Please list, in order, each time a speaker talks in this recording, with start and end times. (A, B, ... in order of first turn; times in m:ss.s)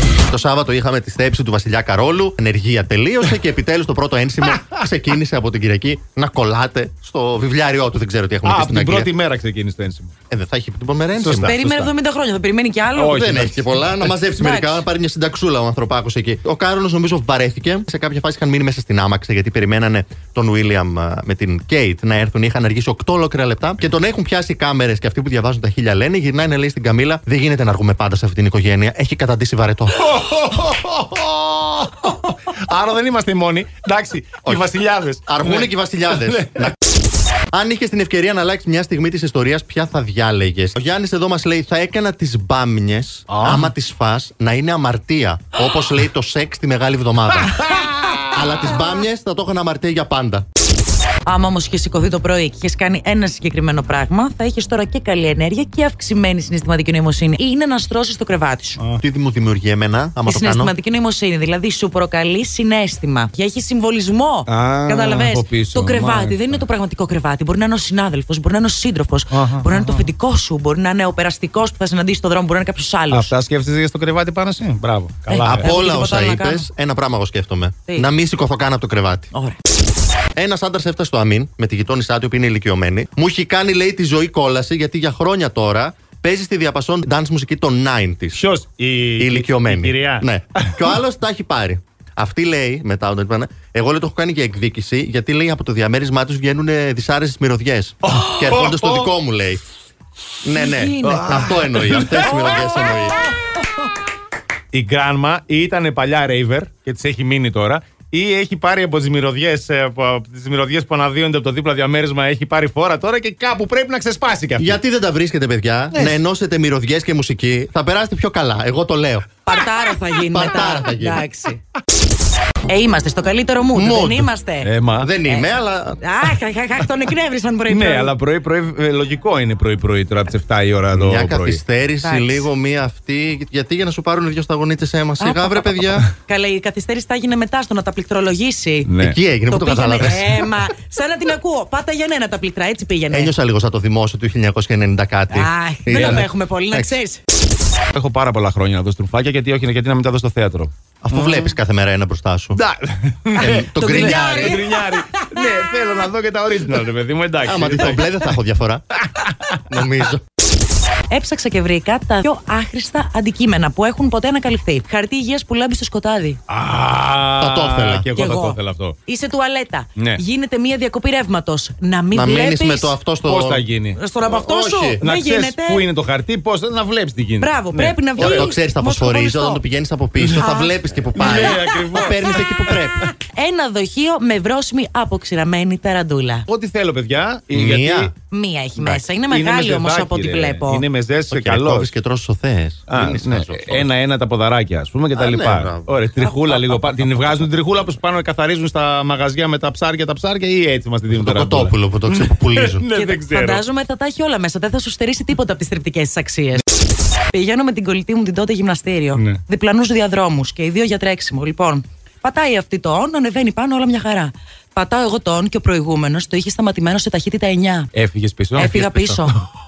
0:00.2-0:09.1 A
0:04.4-0:04.8 B
0:08.4-0:10.1 B
0:10.3-0:11.5 A
0:11.2-0:11.9 B
0:11.3-0:13.4 C
0:13.0-0:13.7 B
0:13.1-0:30.0 A
0:14.4-0:14.8 C
0:29.9-0:36.7 B
0:34.4-0:34.7 A
0:35.2-0:36.7 A
0:37.5-0:47.7 A
0:43.3-0:43.7 B
0:47.3-0:48.2 B
0:48.2-0:50.4 A
0:51.2-0:58.8 C
0:59.0-1:00.7 A
1:00.2-1:13.3 C
1:04.5-1:06.6 B
1:09.3-1:10.1 B
1:13.1-1:15.7 B
1:15.3-1:16.6 C
1:15.4-1:19.3 A
1:19.3-1:19.6 C
1:20.4-1:28.4 A
1:28.3-1:30.9 B
1:29.2-1:39.6 A
1:38.0-1:39.1 B
1:40.4-1:43.2 A
1:40.6-1:41.2 C
1:41.0-1:43.0 B
1:44.7-1:54.8 B
1:54.6-1:59.2 A
1:59.4-2:01.6 C
2:00.3-2:01.2 A
2:02.7-2:04.7 C
2:03.7-2:04.3 A
2:04.6-2:05.1 B
2:05.0-2:06.0 A
2:05.2-2:05.5 C
2:06.0-2:08.1 C
2:07.7-2:11.6 B
2:10.9-2:16.1 A
2:12.0-2:12.4 C
2:15.2-2:18.9 C
2:18.9-2:19.2 B
2:19.0-2:20.5 A
2:19.5-2:23.3 C
2:23.1-2:27.0 A
2:25.3-2:27.2 C
2:25.9-2:26.2 B
2:27.9-2:31.6 B
2:31.0-2:32.6 A
2:32.5-2:38.3 B
2:33.4-2:34.6 A
2:33.8-2:35.7 C
2:37.4-2:38.8 A
2:39.1-2:39.6 B
2:39.7-2:40.2 A
2:41.1-2:46.4 C
2:46.5-2:49.0 B
2:47.4-2:48.1 A
2:48.1-2:52.9 C
2:50.0-2:50.2 B
2:52.1-2:53.6 A
2:53.2-2:54.0 B
2:54.0-2:55.8 C
2:54.2-2:55.0 A
2:55.0-2:58.5 B
2:57.4-2:59.6 C
2:58.2-3:03.1 A
3:00.2-3:00.4 B
3:00.4-3:00.7 C
3:01.1-3:02.5 B
3:03.2-3:06.4 C
3:06.5-3:08.1 B
3:07.5-3:08.1 A
3:08.3-3:10.8 C
3:08.8-3:09.0 A
3:09.3-3:11.9 B
3:11.3-3:13.9 A
3:12.9-3:23.6 B
3:15.2-3:15.9 A
3:21.1-3:22.8 A
3:22.9-3:26.6 C
3:27.3-3:37.9 C
3:37.9-3:39.3 B
3:38.6-3:39.4 C